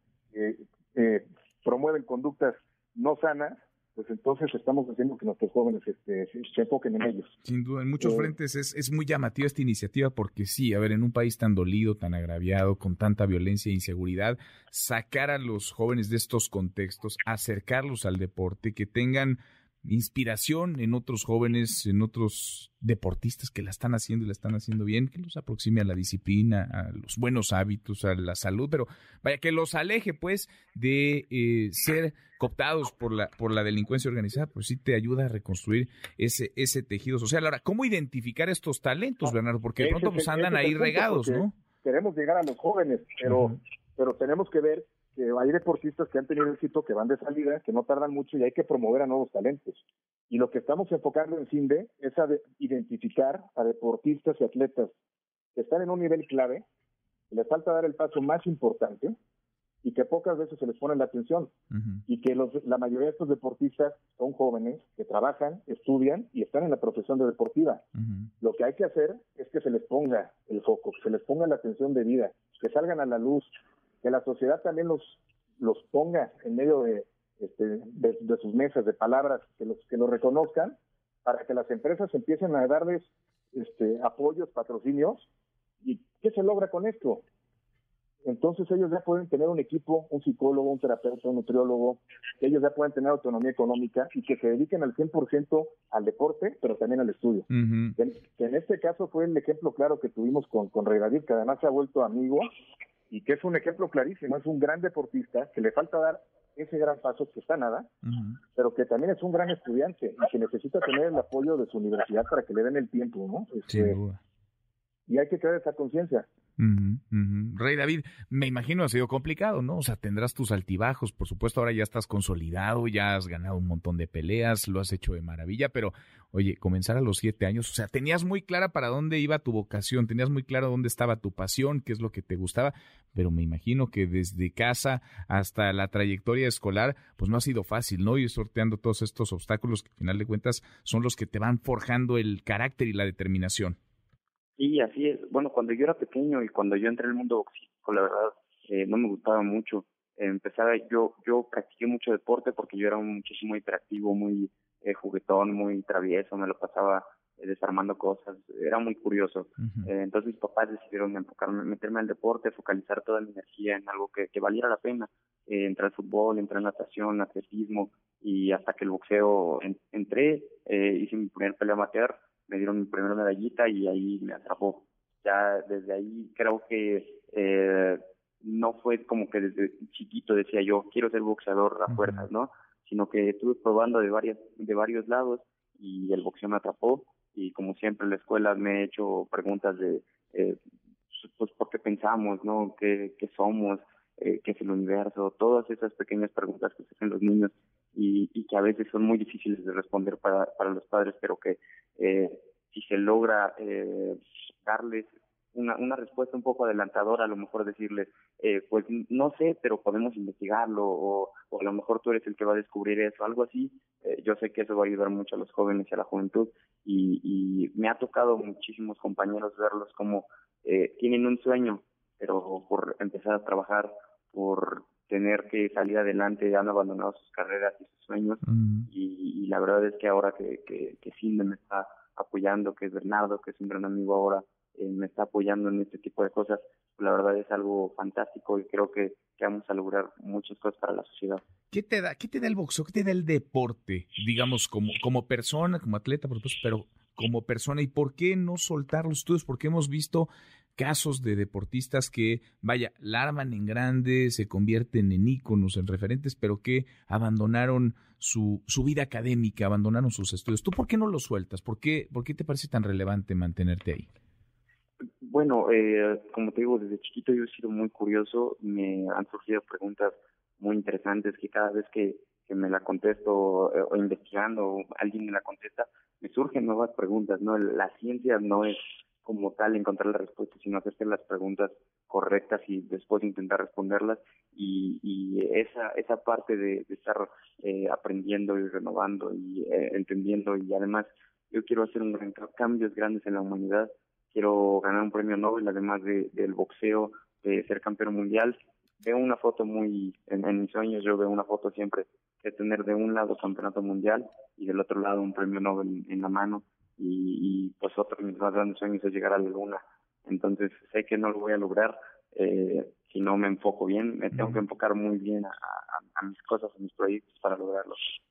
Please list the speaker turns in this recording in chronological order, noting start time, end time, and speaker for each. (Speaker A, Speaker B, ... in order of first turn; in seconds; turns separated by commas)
Speaker A: 0.3-7.3, Speaker B: 7.4-41.5, Speaker A: 8.0-8.3, Speaker A: 39.2-49.8, Speaker B: 43.2-43.6, Speaker A: 50.3-54.9, Speaker A: 55.5-56.6, Speaker A: 57.3-59.1, Speaker A: 59.8-61.5, Speaker B: 61.7-62.0, Speaker A: 62.1-67.8, Speaker B: 68.0-68.3, Speaker A: 68.4-73.5, Speaker A: 74.0-85.3, Speaker A: 85.8-87.2, Speaker A: 88.2-102.5, Speaker B: 97.5-97.9, Speaker A: 103.1-107.9, Speaker B: 108.0-108.4, Speaker A: 108.5-114.0, Speaker B: 113.7-114.2, Speaker A: 115.1-116.3, Speaker B: 116.6-143.8, Speaker C: 144.6-190.6, Speaker B: 159.6-159.9, Speaker B: 181.9-182.3, Speaker C: 191.1-241.4, Speaker B: 228.4-228.9, Speaker B: 241.7-264.1, Speaker C: 265.2-318.1, Speaker B: 314.3-314.6